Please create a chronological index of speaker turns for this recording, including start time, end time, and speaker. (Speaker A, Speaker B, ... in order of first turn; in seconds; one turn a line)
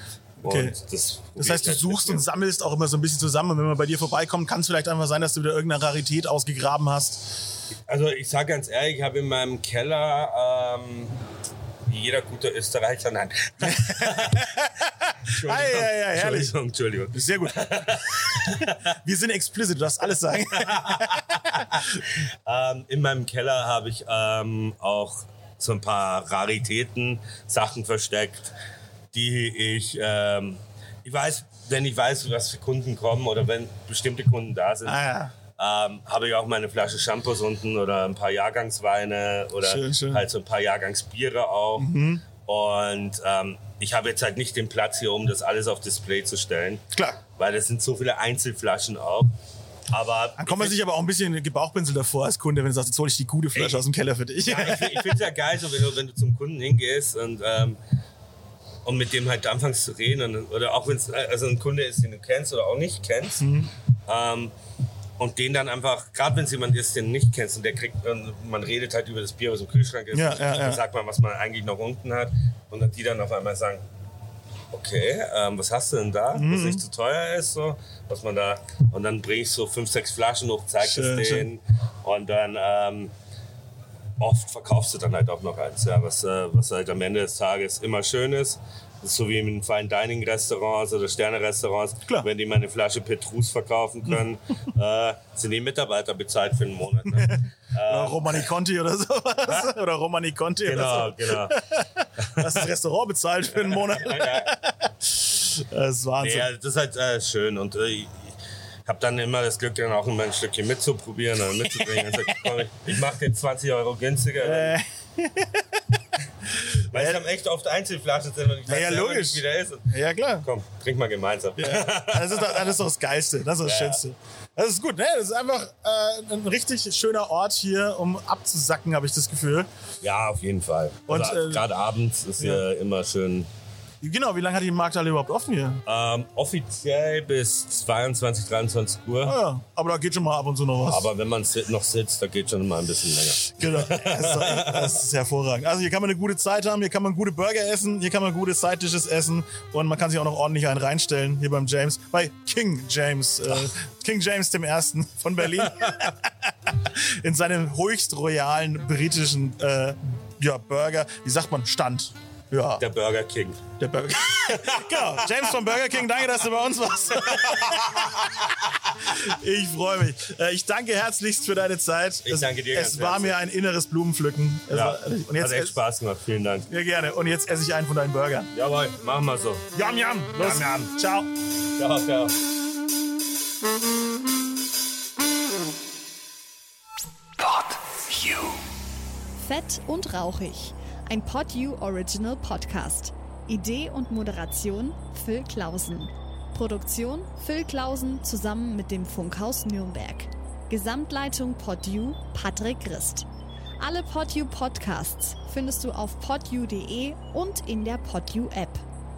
Speaker A: 0.4-0.8
Speaker B: 0.4-2.3
Speaker A: 1.4-7.5
Speaker B: 7.9-11.2
Speaker B: 11.8-14.5
Speaker A: 13.7-16.6
Speaker B: 15.3-18.9
Speaker A: 17.1-17.7
Speaker A: 19.0-21.8
Speaker B: 20.5-28.6
Speaker B: 29.1-35.0
Speaker A: 34.9-35.3
Speaker B: 35.6-46.8
Speaker A: 39.6-40.2
Speaker A: 41.8-42.2
Speaker A: 46.9-47.2
Speaker B: 47.4-49.3
Speaker B: 49.9-50.8
Speaker A: 50.4-55.1
Speaker B: 53.5-53.8
Speaker B: 54.4-57.8
Speaker B: 58.9-63.5
Speaker A: 63.4-63.7
Speaker B: 64.1-64.5
Speaker B: 65.2-73.8
Speaker A: 70.1-70.8
Speaker B: 74.7-83.1
Speaker A: 76.3-76.8
Speaker A: 80.8-81.5
Speaker B: 84.2-98.5
Speaker A: 97.2-106.5
Speaker B: 100.6-101.6
Speaker B: 102.2-102.7
Speaker B: 103.5-104.5
Speaker B: 106.2-114.8
Speaker A: 111.8-112.0
Speaker A: 114.4-115.6
Speaker A: 116.6-117.2
Speaker B: 116.9-122.7
Speaker A: 118.7-120.5
Speaker A: 121.6-129.7
Speaker B: 123.6-124.0
Speaker B: 130.0-133.5
Speaker A: 131.1-131.6
Speaker A: 134.0-135.8
Speaker B: 135.9-139.4
Speaker A: 139.2-141.1
Speaker B: 140.9-145.0
Speaker A: 143.5-162.8
Speaker B: 162.8-163.6
Speaker A: 163.8-168.4
Speaker B: 164.5-165.1
Speaker B: 167.4-167.8
Speaker A: 169.0-175.8
Speaker B: 172.2-173.4
Speaker B: 174.7-176.7
Speaker A: 176.7-178.5
Speaker B: 178.5-179.7
Speaker A: 179.7-181.3
Speaker B: 180.4-180.9
Speaker B: 181.8-182.4
Speaker C: 189.4-203.3
Speaker C: 203.8-208.8